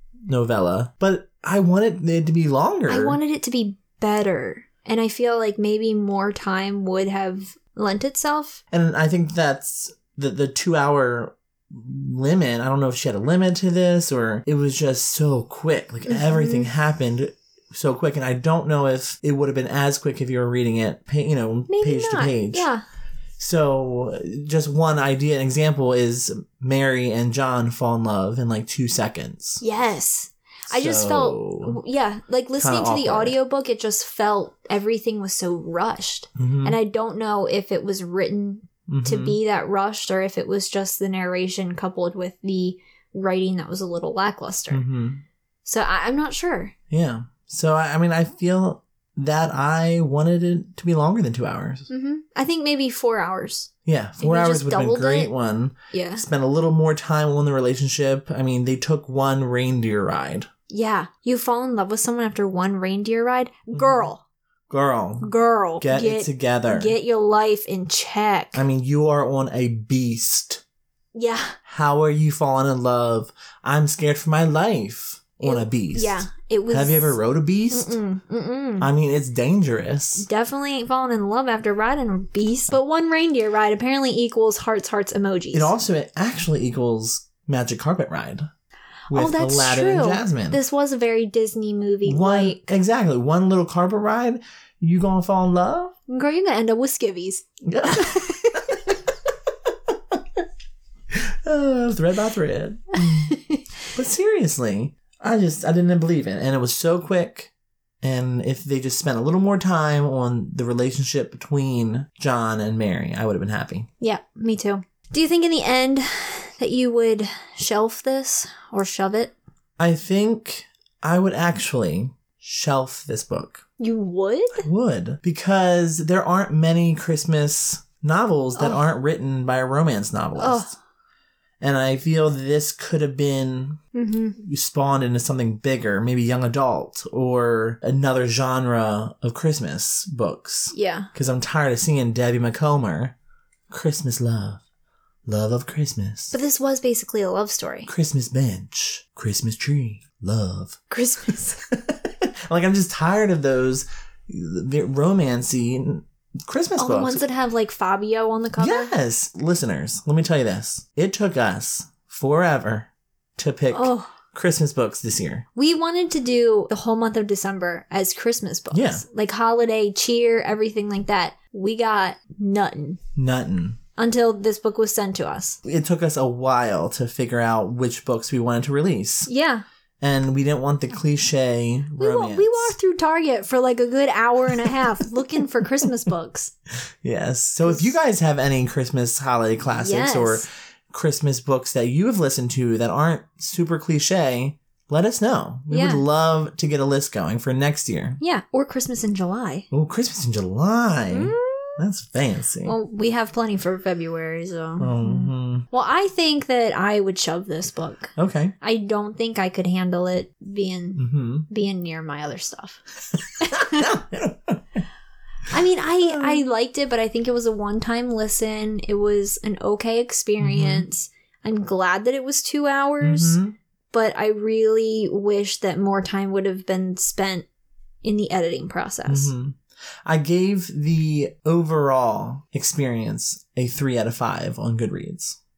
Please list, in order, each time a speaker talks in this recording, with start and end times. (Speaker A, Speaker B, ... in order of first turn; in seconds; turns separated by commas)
Speaker A: 0.3-3.2, Speaker B: 2.9-8.6, Speaker A: 8.7-22.7, Speaker B: 16.1-16.7, Speaker B: 21.7-22.8, Speaker A: 23.4-29.6, Speaker B: 29.6-44.8, Speaker A: 30.7-31.8, Speaker A: 32.6-33.4, Speaker A: 36.4-36.8, Speaker A: 38.9-39.4, Speaker A: 44.7-45.2, Speaker B: 45.6-46.7, Speaker A: 46.9-51.9, Speaker B: 51.9-55.3, Speaker A: 53.9-60.5, Speaker B: 55.9-56.2, Speaker B: 60.7-64.2, Speaker A: 63.7-64.1, Speaker A: 64.7-66.9, Speaker B: 65.2-68.6, Speaker A: 68.5-70.6, Speaker B: 71.1-71.6, Speaker A: 71.6-78.0, Speaker B: 75.4-77.2, Speaker B: 77.7-78.9, Speaker A: 78.8-80.3, Speaker B: 80.2-85.7, Speaker A: 85.5-88.5, Speaker A: 89.1-90.6, Speaker B: 89.1-92.7, Speaker A: 92.0-95.9, Speaker B: 96.1-98.7, Speaker A: 97.6-98.8, Speaker A: 101.1-103.3, Speaker B: 103.3-103.6, Speaker A: 103.9-107.5, Speaker A: 108.0-113.9, Speaker B: 114.0-119.3, Speaker A: 119.8-123.6, Speaker B: 123.8-124.7, Speaker A: 124.6-130.7, Speaker B: 128.6-128.8, Speaker B: 130.4-130.7, Speaker A: 131.6-133.8, Speaker B: 133.9-134.3, Speaker A: 134.4-143.1, Speaker B: 140.7-141.1, Speaker A: 143.7-144.6, Speaker A: 145.2-146.3, Speaker B: 146.3-147.9, Speaker A: 147.9-150.8, Speaker B: 150.9-151.6, Speaker A: 151.7-157.2, Speaker B: 156.8-158.9, Speaker A: 158.6-165.4, Speaker B: 163.7-164.1, Speaker B: 165.5-173.0, Speaker A: 168.7-169.0, Speaker A: 173.2-173.8, Speaker B: 174.0-175.6, Speaker A: 175.6-179.3, Speaker B: 179.3-179.6, Speaker A: 180.0-182.7, Speaker B: 182.0-186.5, Speaker A: 187.0-198.2, Speaker B: 187.7-187.9, Speaker B: 189.7-190.5, Speaker B: 195.7-196.0, Speaker B: 198.2-199.7, Speaker A: 199.7-202.8, Speaker B: 201.1-201.8, Speaker B: 202.6-212.8, Speaker A: 204.8-205.6, Speaker A: 208.2-208.5, Speaker A: 211.0-211.5, Speaker B: 213.4-213.9, Speaker A: 213.4-214.8, Speaker B: 215.5-223.4, Speaker A: 216.1-216.4, Speaker A: 220.4-220.8, Speaker A: 223.0-223.5, Speaker B: 223.9-227.4, Speaker B: 228.0-229.3, Speaker A: 229.1-235.4